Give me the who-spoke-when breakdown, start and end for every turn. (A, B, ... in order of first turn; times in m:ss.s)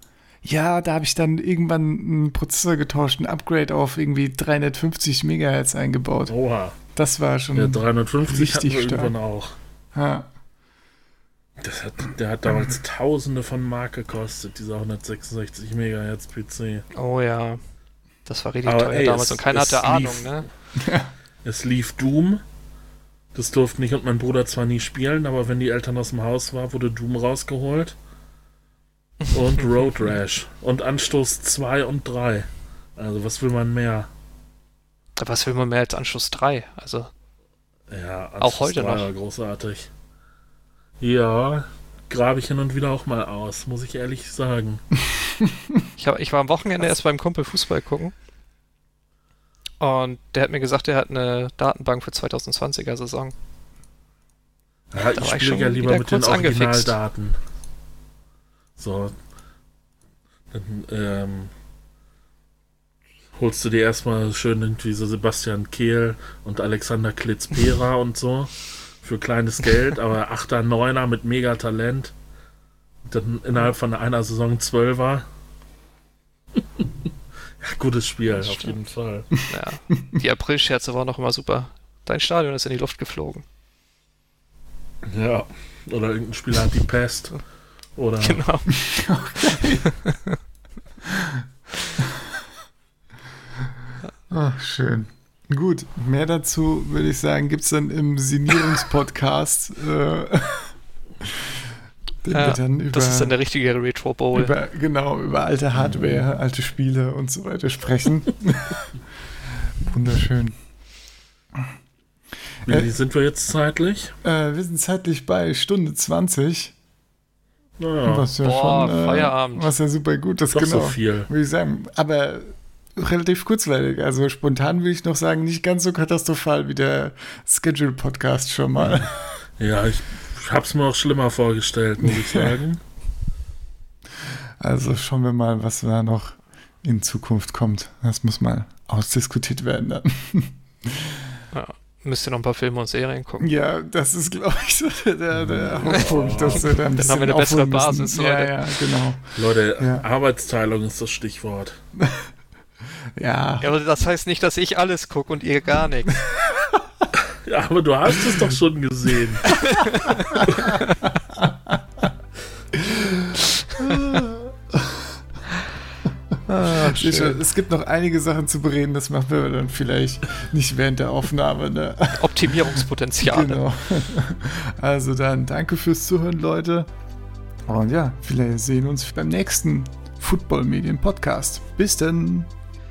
0:00.4-0:06.3 A
0:06.3-0:06.8 B
0:07.0-0:09.1 A
0:07.5-0:09.6 B
0:09.9-0:10.3 A
0:11.6-0:16.9 B
0:16.9-0:17.6 C
0:18.3-0:20.5 C
0:18.6-0:20.4 B
0:20.8-0:21.1 A
0:21.4-0:22.4 B
0:23.4-0:28.0 B
0:29.3-0:34.1 B
0:35.2-0:37.1 C
0:37.9-0:39.9 B
0:38.4-0:39.1 C
0:41.0-0:44.8 B
0:45.4-0:45.8 A
0:46.0-0:48.1 C
0:49.8-0:53.3 C
0:54.9-0:57.4 B
0:55.1-0:57.0 C
0:58.8-0:59.2 B
1:00.5-1:01.5 B
1:03.4-1:12.1 B
1:13.1-1:15.3 B
1:16.6-1:16.9 B
1:17.6-1:19.3 B
1:19.5-1:23.4 C
1:25.1-1:27.4 B
1:28.0-1:28.4 B
1:28.2-1:28.7 C
1:28.8-1:29.9 A
1:29.9-1:30.4 C
1:31.0-1:31.4 A
1:34.3-1:41.6 A
1:42.2-1:43.3 A
1:42.3-1:44.5 C
1:44.3-1:48.9 A
1:45.8-1:46.2 B
1:49.5-1:50.6 A
1:52.6-1:54.1 B
1:54.2-1:56.8 A
1:57.8-1:58.3 B
1:58.1-2:09.1 A
1:58.4-1:59.7 C
2:00.5-2:01.3 B
2:09.6-2:12.8 B
2:12.0-2:12.6 A
2:14.2-2:21.4 A
2:21.5-2:23.5 C
2:23.4-2:30.1 A
2:25.4-2:26.8 B
2:26.9-2:28.8 C
2:29.4-2:31.8 B
2:32.0-2:32.3 A
2:33.2-2:33.7 A
2:33.6-2:36.2 C
2:36.3-2:37.1 A
2:37.4-2:39.6 B
2:39.6-2:40.4 C
2:40.1-2:42.1 A
2:40.4-2:40.8 B
2:42.7-2:45.2 A
2:46.5-2:47.4 C
2:46.7-2:56.9 A
2:52.2-2:53.6 C
2:57.7-3:02.5 A